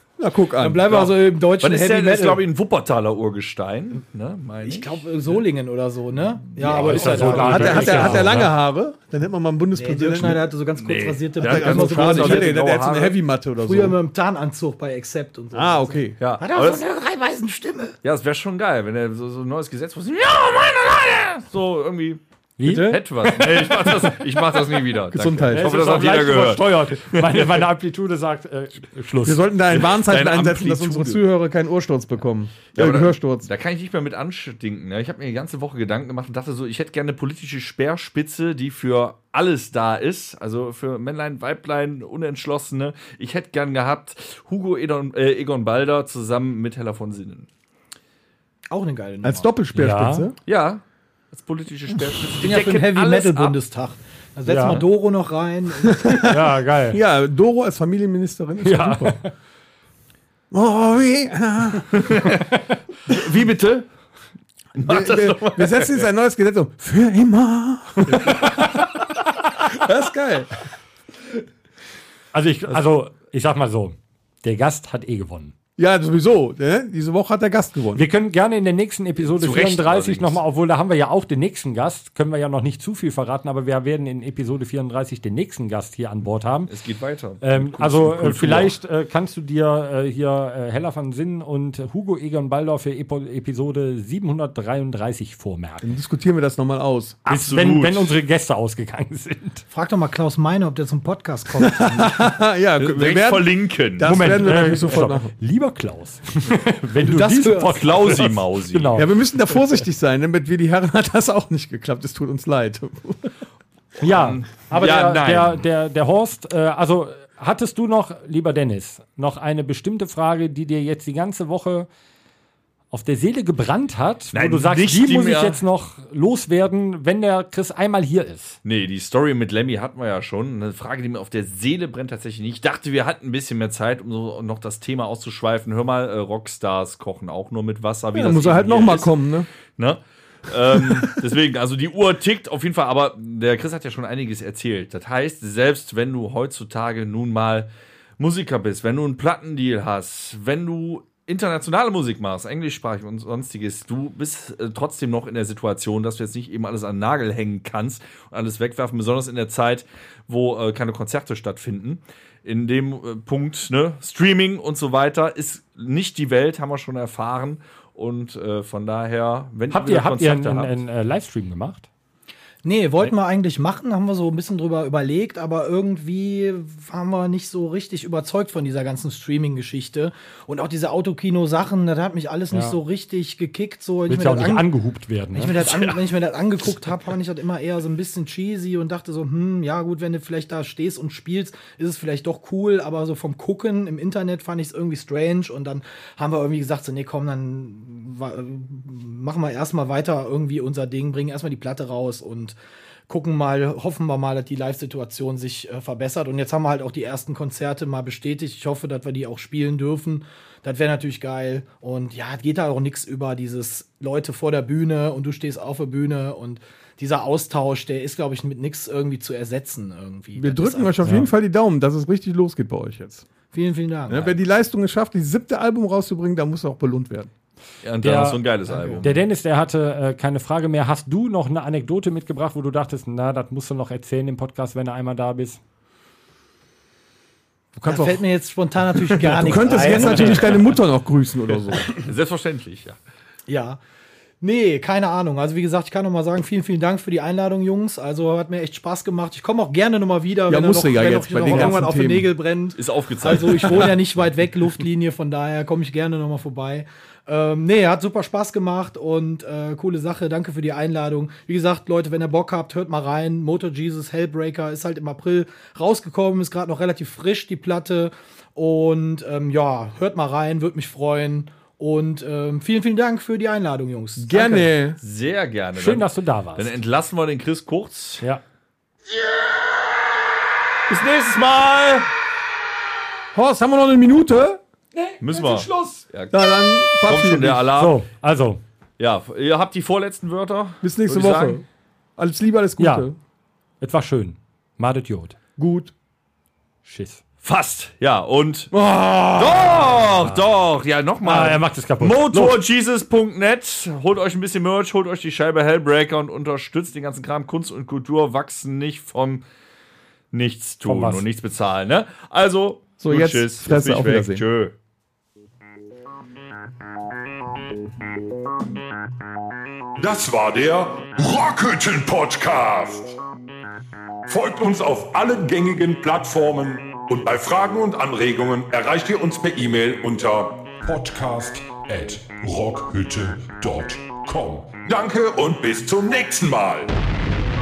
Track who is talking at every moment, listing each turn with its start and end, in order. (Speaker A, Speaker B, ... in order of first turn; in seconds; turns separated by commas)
Speaker A: 0.2-1.0, Speaker B: 0.6-2.4, Speaker C: 0.9-5.4, Speaker B: 4.6-8.4, Speaker C: 6.6-8.2, Speaker D: 6.6-8.5, Speaker A: 7.0-10.4, Speaker B: 9.7-12.5, Speaker C: 10.8-13.2, Speaker A: 11.4-14.0, Speaker B: 13.6-17.9, Speaker A: 15.5-16.2, Speaker C: 16.2-16.8, Speaker C: 18.0-27.6, Speaker D: 22.6-24.1, Speaker A: 22.6-23.0, Speaker A: 25.1-25.8, Speaker D: 25.5-29.5, Speaker A: 29.2-33.5, Speaker C: 29.7-31.2, Speaker C: 32.7-47.5, Speaker B: 48.7-49.5, Speaker A: 49.2-50.4, Speaker D: 49.7-50.3, Speaker C: 50.5-53.6, Speaker B: 52.4-56.3, Speaker D: 54.5-54.8, Speaker D: 56.2-57.0, Speaker A: 56.9-59.2, Speaker D: 58.6-59.3, Speaker A: 60.5-62.2, Speaker C: 61.9-62.4, Speaker C: 63.1-63.9, Speaker C: 64.8-66.1, Speaker A: 64.8-68.5, Speaker A: 69.7-70.5, Speaker D: 72.3-75.5, Speaker A: 75.8-78.0, Speaker D: 77.9-86.7, Speaker C: 79.2-80.4, Speaker C: 86.7-88.7, Speaker D: 87.4-95.9, Speaker A: 95.8-97.2, Speaker C: 97.2-98.1, Speaker D: 97.2-99.6, Speaker B: 99.7-102.2, Speaker A: 101.6-105.3, Speaker C: 102.8-104.2, Speaker D: 104.0-109.1, Speaker B: 107.0-107.8, Speaker C: 107.7-109.0, Speaker A: 108.9-113.4, Speaker D: 114.0-121.9, Speaker C: 114.0-115.6, Speaker D: 122.9-128.6, Speaker C: 124.3-125.6, Speaker C: 128.6-139.1, Speaker A: 138.1-139.5, Speaker C: 139.8-147.7, Speaker A: 140.8-141.2, Speaker C: 148.2-170.7, Speaker D: 169.7-171.9, Speaker B: 172.6-184.7, Speaker D: 182.5-182.8, Speaker D: 184.1-185.5, Speaker B: 185.3-202.6, Speaker C: 185.6-186.1, Speaker B: 203.1-221.0, Speaker A: 220.3-223.2, Speaker D: 221.0-221.3, Speaker B: 223.5-224.3, Speaker A: 224.1-227.3, Speaker C: 227.8-229.1, Speaker D: 228.0-228.4, Speaker B: 228.7-229.1, Speaker D: 229.0-235.6, Speaker A: 237.7-238.2, Speaker B: 237.8-240.7, Speaker A: 239.2-241.9, Speaker C: 239.7-240.4, Speaker D: 240.1-240.4, Speaker C: 241.9-243.0, Speaker B: 243.5-243.8, Speaker B: 244.4-274.7, Speaker A: 250.5-252.3, Speaker C: 252.8-253.9, Speaker A: 274.2-275.0, Speaker C: 275.0-278.2, Speaker D: 275.7-276.8, Speaker C: 280.9-282.1, Speaker A: 283.3-284.6, Speaker C: 285.2-288.0, Speaker A: 286.3-287.6, Speaker D: 287.8-288.6, Speaker C: 289.0-291.6, Speaker A: 290.8-291.6, Speaker A: 292.2-293.2, Speaker D: 292.8-293.1, Speaker D: 293.8-295.4, Speaker A: 295.6-295.9, Speaker D: 296.8-297.2, Speaker C: 297.4-298.7, Speaker A: 298.7-300.0, Speaker C: 299.3-309.4, Speaker D: 300.2-300.4, Speaker D: 301.2-302.6, Speaker C: 310.3-314.7, Speaker D: 310.9-311.2, Speaker A: 313.0-314.4, Speaker E: 320.0-323.1, Speaker E: 324.3-336.9